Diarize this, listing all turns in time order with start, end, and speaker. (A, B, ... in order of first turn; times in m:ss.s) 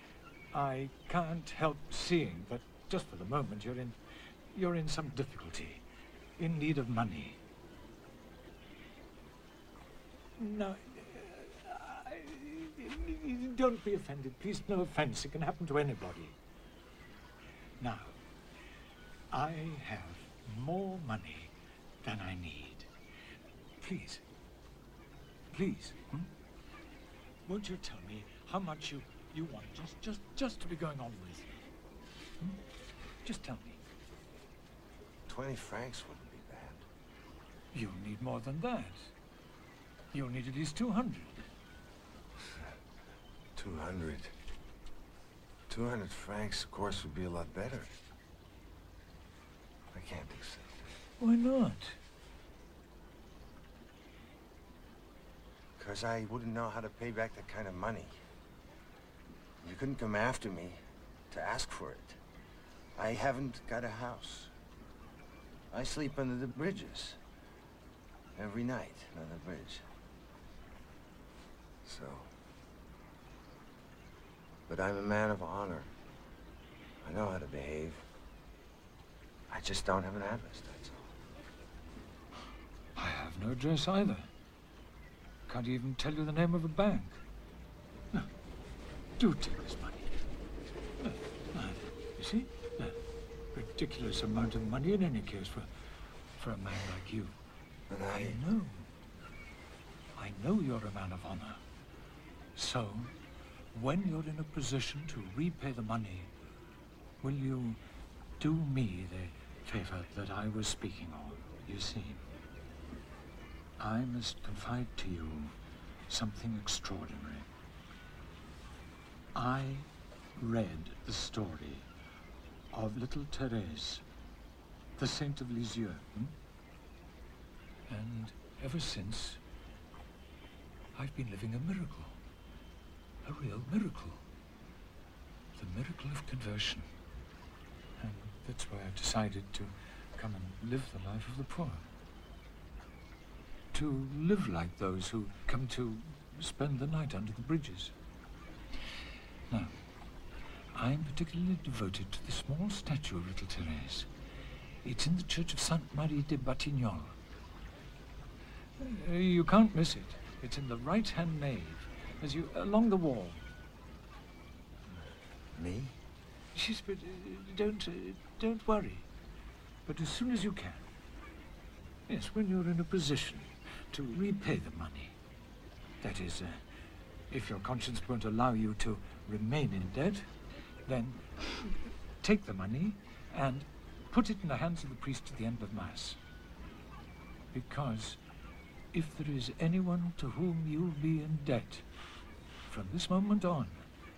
0:00.5-0:04.0 A
0:04.5-0:05.8 A
0:06.4-0:07.4 A
0:10.4-0:16.4 A
0:17.8-0:18.2 A
0:19.3-0:22.9 A
0:23.8-0:24.2 A
0:25.5-0:26.3 A
0:27.4-0:31.5 A
0:33.2-0:33.8 A
0:35.3-0:36.8 B
0:37.7-0:39.1 A
0:40.1-0:41.4 A
0:43.6-0:44.3 B
0:45.7-0:47.9 B
0:49.9-0:50.9 B
0:51.2-0:52.0 A
0:55.8-0:58.2 B
0:59.6-1:00.8 B
1:01.3-1:02.2 B
1:02.9-1:04.5 B
1:05.7-1:07.2 B
1:08.3-1:09.9 B
1:11.8-1:12.3 B
1:14.7-1:15.9 B
1:17.0-1:18.1 B
1:19.5-1:21.1 B
1:22.9-1:24.3 A
1:25.5-1:27.2 A
1:29.2-1:30.1 A
1:31.0-1:33.0 A
1:33.5-1:35.7 A
1:36.4-1:37.4 A
1:37.9-1:38.4 B
1:38.1-1:38.9 A
1:40.1-1:41.6 A
1:42.6-1:43.1 A
1:43.7-1:46.3 A
1:47.2-1:47.8 A
1:48.4-1:52.2 A
1:53.8-1:55.6 A
1:56.1-1:57.5 A
1:59.3-2:01.9 A
2:02.7-2:04.0 A
2:05.0-2:06.3 A
2:07.9-2:09.4 A
2:10.9-2:12.2 A
2:13.2-2:14.2 A
2:15.6-2:16.9 A
2:18.0-2:21.9 A
2:23.7-2:27.9 A
2:29.5-2:29.8 A
2:30.7-2:34.1 A
2:34.8-2:37.2 A
2:38.8-2:43.4 A
2:45.5-2:46.0 B
2:46.5-2:49.1 A
2:49.8-2:50.8 A
2:52.1-2:55.2 A
2:56.0-2:56.6 A
2:57.3-3:00.3 A
3:00.9-3:06.2 A
3:07.5-3:08.2 A
3:08.9-3:11.9 A
3:12.7-3:13.8 A